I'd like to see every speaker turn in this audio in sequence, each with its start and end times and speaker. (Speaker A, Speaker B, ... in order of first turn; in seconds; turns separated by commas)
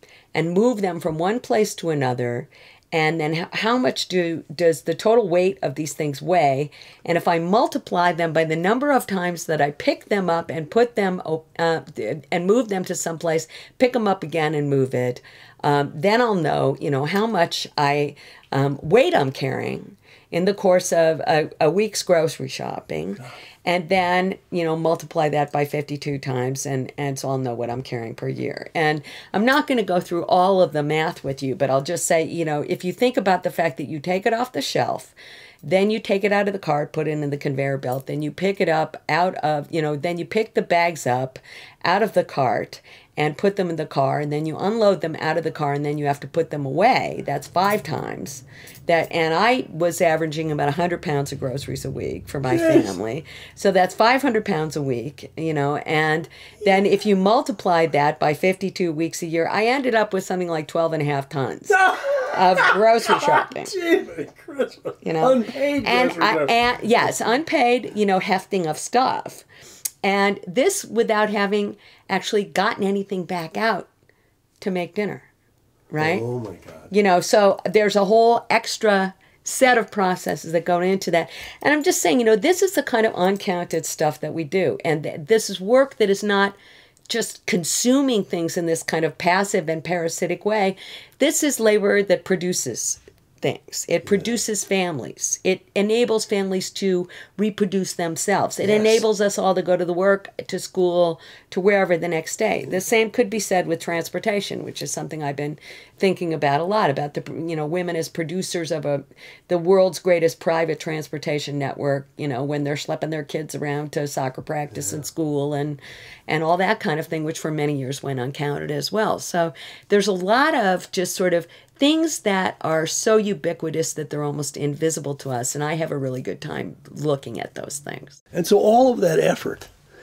Speaker A: 0.3-63.7, Speaker B: 52.5-52.9, Speaker B: 61.7-67.1, Speaker A: 65.0-69.4, Speaker A: 70.0-73.9, Speaker A: 74.6-75.3, Speaker A: 75.9-76.2, Speaker B: 76.0-76.9, Speaker A: 76.9-86.6, Speaker A: 87.1-128.2, Speaker B: 98.6-99.0, Speaker B: 128.3-129.7